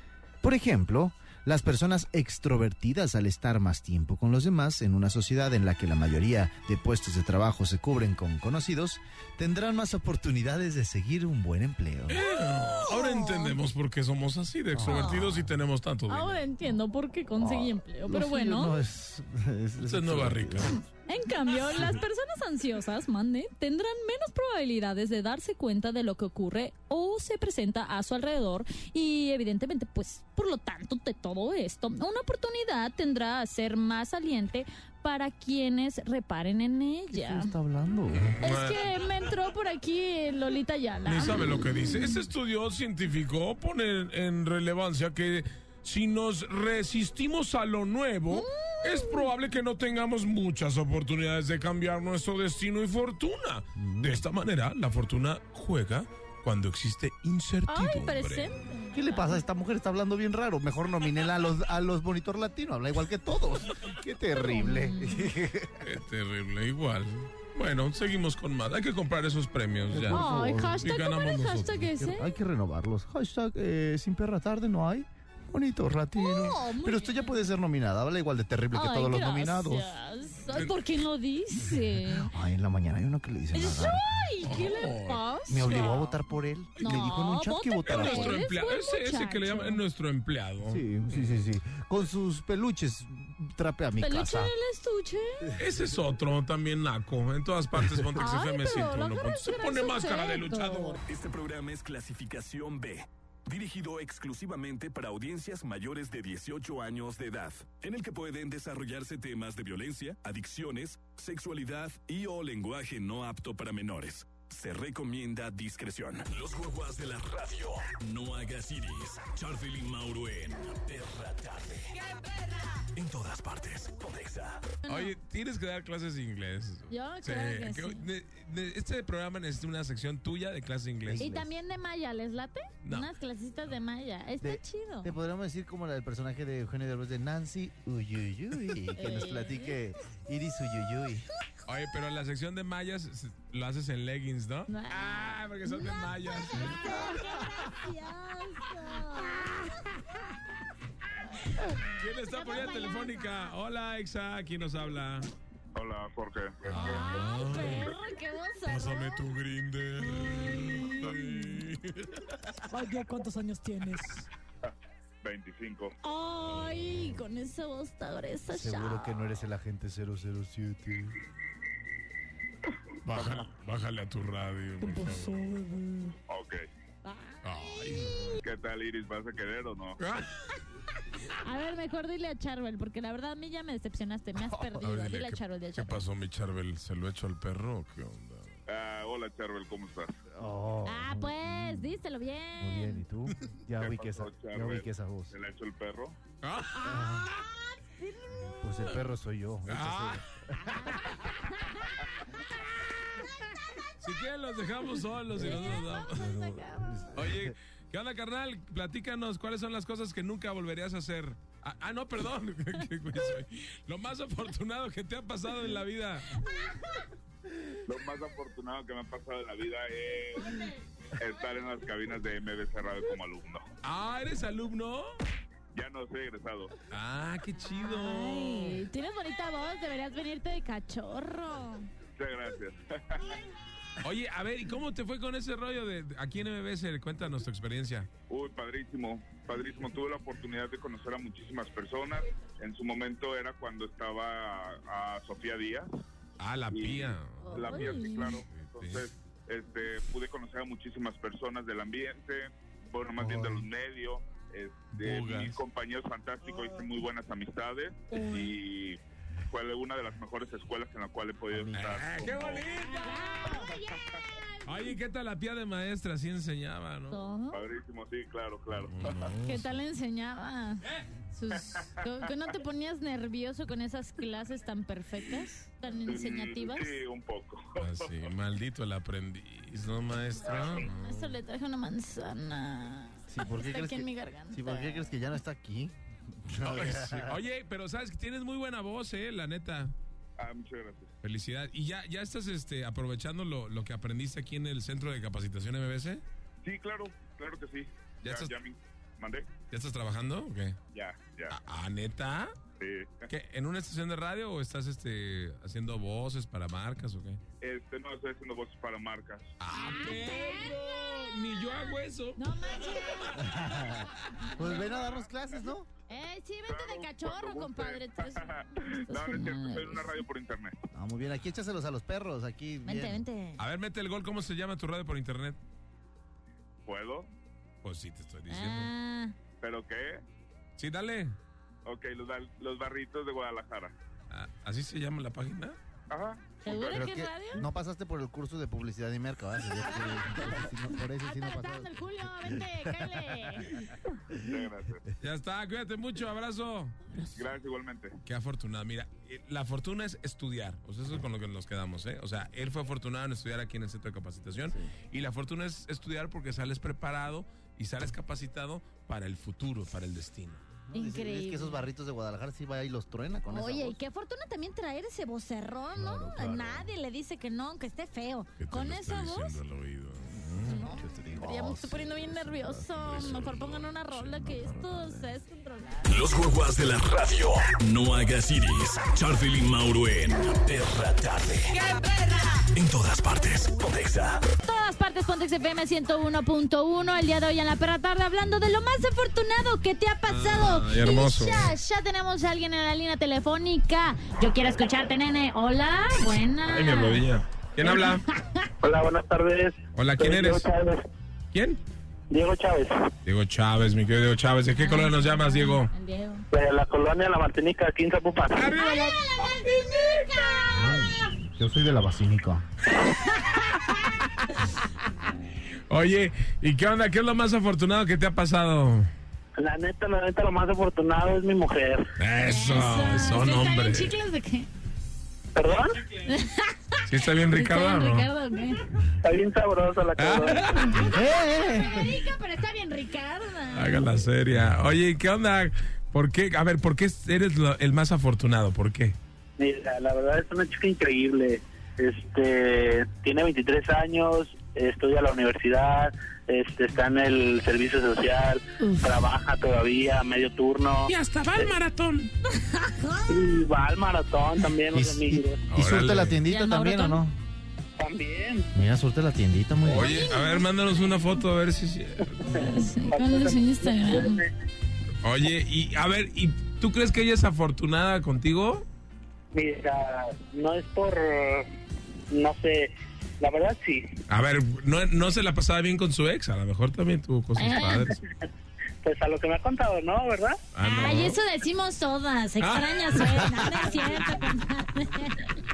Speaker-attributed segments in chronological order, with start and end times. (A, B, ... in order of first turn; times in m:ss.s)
0:00.4-0:12.2 A
0:12.1-0:16.4 B
0:12.8-0:13.5 C
0:14.7-0:15.4 A
0:14.8-0:15.3 C
0:16.1-0:18.7 C
0:17.4-0:20.8 A
0:19.8-0:20.8 B
0:21.0-0:37.5 C
0:37.1-0:38.3 A
0:38.1-0:38.8 B
0:38.4-0:42.2 C
0:41.0-0:58.6 B
0:48.3-0:49.3 C
0:53.8-0:54.2 A
0:57.7-0:59.4 C
0:58.9-1:05.9 A
1:04.4-1:05.3 C
1:05.8-1:12.0 B
1:09.9-1:10.8 A
1:10.1-1:12.3 C
1:12.0-1:19.9 A
1:16.2-1:17.3 C
1:18.7-1:22.3 C
1:22.0-1:24.0 A
1:23.5-1:26.1 C
1:24.4-1:25.2 B
1:25.5-1:28.4 A
1:26.8-1:29.8 C
1:27.9-1:31.4 B
1:30.6-1:34.5 A
1:34.0-1:35.5 C
1:35.5-1:41.0 B
1:38.2-1:41.0 C
1:41.1-2:02.0 D
2:02.9-2:04.7 D
2:04.8-2:05.1 C
2:04.9-2:11.3 B
2:06.9-2:08.0 C
2:11.0-2:11.5 A
2:11.2-2:15.1 C
2:12.8-2:13.1 B
2:14.4-2:21.3 A
2:18.9-2:19.7 C
2:21.6-2:27.5 B
2:24.7-2:29.9 C
2:31.8-2:35.3 B
2:32.3-2:33.5 C
2:35.7-2:37.6 E
2:36.7-2:37.9 B
2:36.7-2:39.2 C
2:38.6-2:42.5 B
2:40.2-2:41.2 C
2:42.7-2:44.2 C
2:45.2-2:46.0 E
2:46.0-2:49.2 C
2:48.5-2:51.2 A
2:53.0-2:55.6 B
2:53.2-2:53.4 E
2:54.8-2:56.1 C
2:56.3-2:56.6 E
2:57.0-2:58.4 C
2:57.4-2:58.3 B
2:58.4-3:00.0 E
3:00.0-3:00.4 B
3:01.2-3:06.0 C
3:04.6-3:08.5 B
3:08.7-3:10.1 E
3:10.3-3:12.0 A
3:10.8-3:13.0 C
3:12.6-3:15.3 A
3:13.3-3:13.6 B
3:13.8-3:16.2 E
3:16.4-3:17.4 B
3:16.8-3:18.6 C
3:16.8-3:17.3 A
3:18.4-3:20.8 A
3:19.7-3:20.2 B
3:20.6-3:22.0 C
3:23.1-3:23.8 C
3:24.0-3:26.3 B
3:25.4-3:27.5 A
3:25.4-3:26.9 C
3:27.1-3:36.4 B
3:37.8-3:43.6 E
3:43.8-3:45.1 B
3:45.7-3:46.7 E
3:46.9-3:48.8 B
3:47.8-3:51.9 C
3:52.2-3:53.4 E
3:54.0-3:58.1 B
3:58.3-4:05.9 E
4:06.4-4:09.1 B
4:06.7-4:19.0 E
4:07.4-4:08.4 C
4:13.2-4:13.6 A
4:14.9-4:15.6 B
4:18.1-4:18.5 C
4:19.5-4:22.7 E
4:21.5-4:22.0 A
4:21.7-4:23.4 B
4:22.9-4:24.0 C
4:24.6-4:27.2 B
4:27.1-4:27.6 C
4:27.5-4:29.3 E
4:28.8-4:29.7 B
4:29.4-4:37.0 C
4:36.0-4:38.1 E
4:37.8-4:41.3 B
4:40.8-4:45.1 C
4:43.3-4:47.4 A
4:46.5-4:49.9 B
4:50.4-4:51.1 E
4:51.2-4:56.2 B
4:56.6-4:59.5 E
4:58.2-4:58.5 B
4:59.7-5:00.8 B
5:00.9-5:01.6 E
5:01.5-5:02.5 B
5:02.8-5:03.3 E
5:03.3-5:07.4 B
5:07.6-5:09.5 E
5:09.6-5:12.4 B
5:09.7-5:10.7 C
5:12.4-5:13.9 C
5:13.4-5:15.9 A
5:14.8-5:15.3 E
5:16.1-5:20.2 C
5:16.6-5:20.7 E
5:20.9-5:23.2 A
5:22.8-5:23.6 C
5:23.6-5:25.6 B
5:26.8-5:27.3 E
5:27.8-5:28.9 B
5:28.5-5:29.3 C
5:29.6-5:30.2 E
5:30.8-5:31.3 B
5:31.8-5:33.9 E
5:34.3-5:35.8 B
5:36.1-5:37.1 E
5:36.6-5:37.6 C
5:36.8-5:43.6 A
5:40.3-5:43.8 C
5:44.4-5:45.0 E
5:45.2-5:47.0 B
5:47.3-5:48.1 E
5:48.2-6:00.6 B
6:00.9-6:04.0 A
6:00.9-6:01.8 C
6:03.5-6:09.6 C
6:06.0-6:06.9 A
6:08.6-6:10.8 B
6:10.6-6:16.1 C
6:10.8-6:13.2 A
6:12.9-6:15.0 B
6:16.0-6:21.8 D
6:21.7-6:22.4 C
6:22.7-6:24.4 D
6:24.6-6:37.2 C
6:30.3-6:31.8 B
6:36.6-6:38.2 B
6:37.8-6:38.7 C
6:38.8-6:41.0 F
6:39.9-6:40.7 B
6:41.5-6:41.8 B
6:42.3-6:43.1 F
6:43.2-6:45.9 B
6:44.8-6:46.4 C
6:46.5-6:48.7 F
6:48.5-6:50.0 B
6:48.7-6:51.0 C
6:50.7-6:52.6 A
6:53.3-6:53.9 C
6:55.9-6:59.1 B
6:59.6-7:02.1 F
7:02.2-7:04.1 B
7:02.5-7:04.7 C
7:05.5-7:06.0 F
7:06.2-7:08.8 C
7:07.1-7:08.3 B
7:09.2-7:10.9 F
7:10.2-7:11.1 B
7:10.7-7:14.2 C
7:11.0-7:12.2 A
7:13.7-7:19.2 B
7:19.6-7:31.7 F
7:28.8-7:29.1 C
7:31.1-7:32.3 B
7:32.5-7:33.3 C
7:33.3-7:35.6 F
7:34.9-7:37.4 A
7:35.7-7:36.4 B
7:36.4-7:37.2 C
7:38.0-7:38.7 F
7:38.7-7:40.1 A
7:39.9-7:42.6 B
7:39.9-7:40.6 C
7:42.4-7:44.5 F
7:42.5-7:44.4 C
7:45.2-7:48.8 B
7:49.5-7:51.7 F
7:52.3-7:54.2 F
7:54.3-7:58.2 B
7:57.6-7:58.1 C
7:59.0-8:00.6 F
8:00.7-8:01.4 B
8:00.8-8:05.5 C
8:02.6-8:04.2 B